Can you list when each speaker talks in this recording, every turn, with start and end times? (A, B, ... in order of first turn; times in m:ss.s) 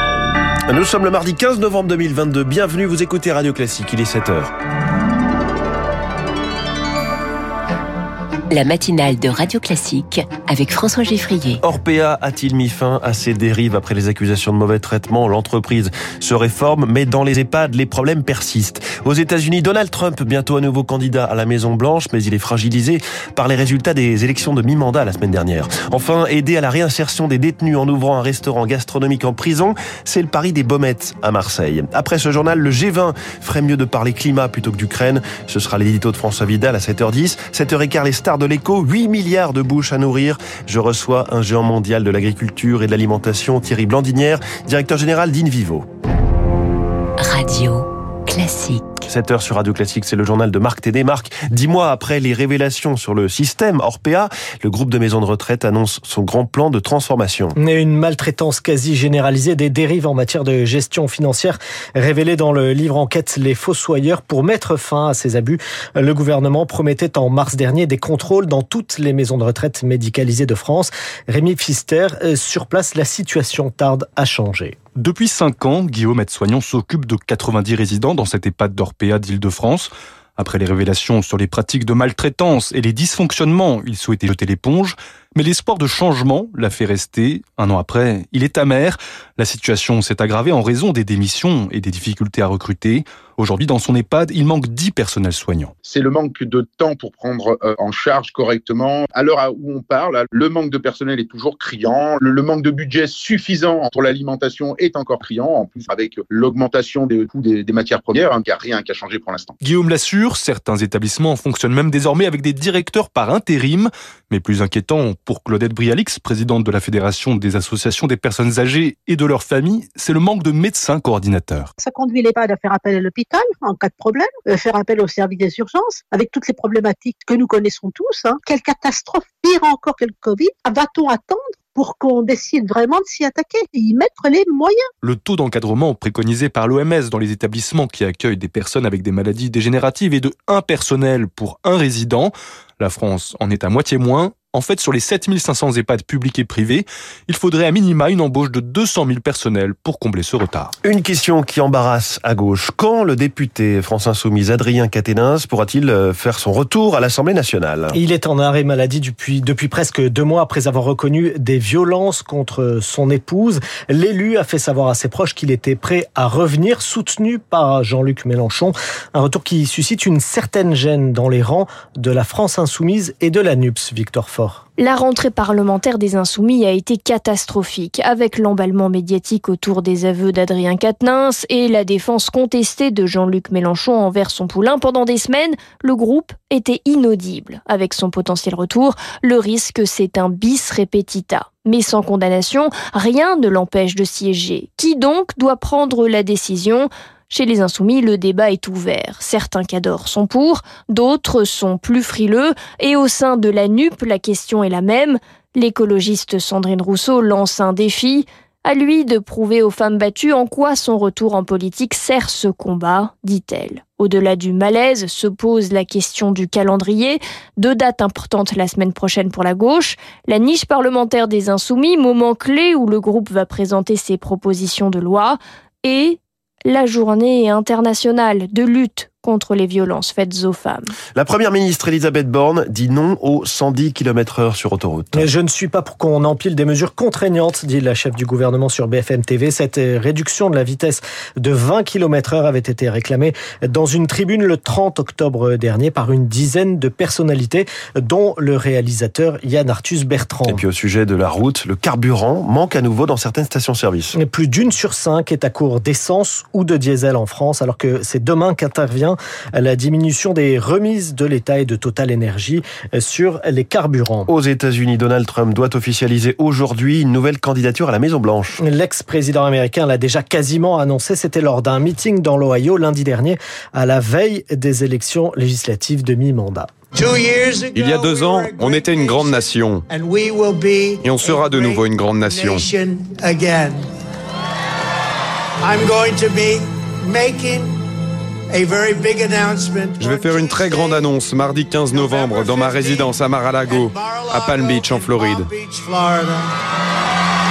0:00.7-0:04.5 A
0:08.5-0:11.6 B
0:11.6-0:45.8 A
0:47.2-0:49.0 B
0:49.1-0:57.5 A
0:57.6-1:14.8 C
1:15.0-1:35.7 D
1:35.8-1:49.5 E
1:49.6-2:01.7 D
2:01.8-2:14.9 F
2:15.0-2:30.7 D
2:30.8-2:38.0 A
2:37.9-2:54.6 C
2:54.8-3:50.9 G
3:51.2-3:55.3 A
3:55.1-4:10.6 C
4:10.5-4:14.1 A
4:14.1-4:24.3 C
4:24.3-4:28.6 A
4:28.6-4:36.7 C
4:36.9-4:43.8 H
4:37.7-4:39.8 D
4:41.0-4:42.7 D
4:45.6-4:47.8 H
4:48.5-4:51.0 H
4:50.0-4:55.5 D
4:51.9-4:56.4 H